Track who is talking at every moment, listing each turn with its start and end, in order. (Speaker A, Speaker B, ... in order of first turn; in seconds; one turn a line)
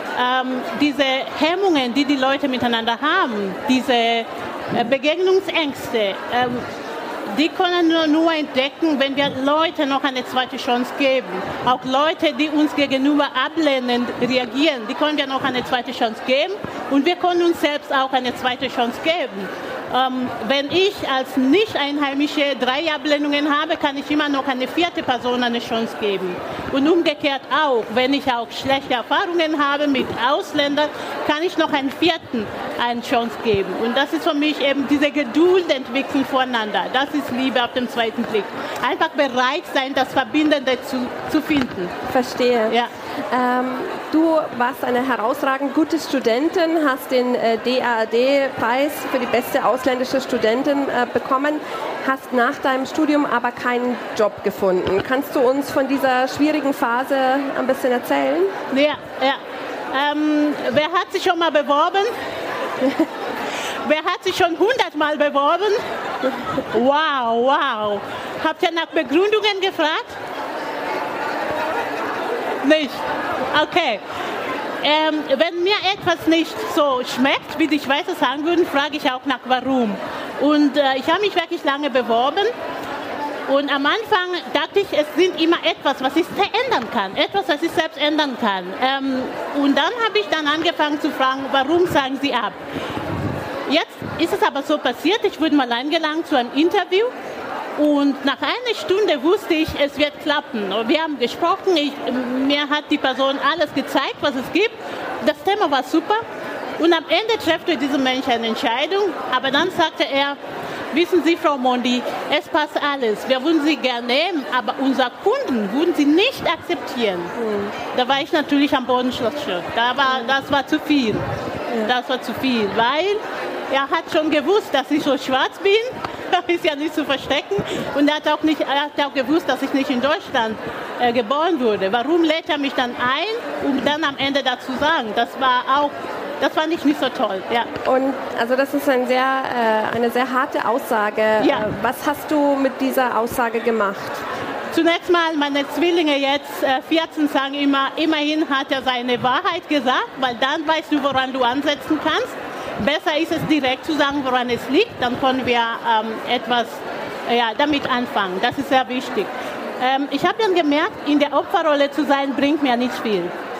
Speaker A: 0.1-6.7
Speaker A: 7.3-41.9
Speaker B: 42.1-42.8
Speaker B: 43.3-58.5
Speaker A: 58.7-59.4
Speaker A: 59.9-62.1
Speaker A: 63.8-65.8
Speaker A: 66.6-70.2
Speaker A: 72.6-74.0
Speaker A: 74.8-82.5
Speaker A: 83.5-92.6
Speaker A: 93.7-97.1
Speaker A: 97.8-106.2
Speaker A: 106.8-110.4
Speaker A: 110.9-117.3
Speaker B: 117.3-117.7
Speaker A: 117.9-121.2
Speaker A: 121.8-137.7
Speaker B: 137.8-144.2
Speaker A: 141.4-141.7
Speaker A: 144.7-163.3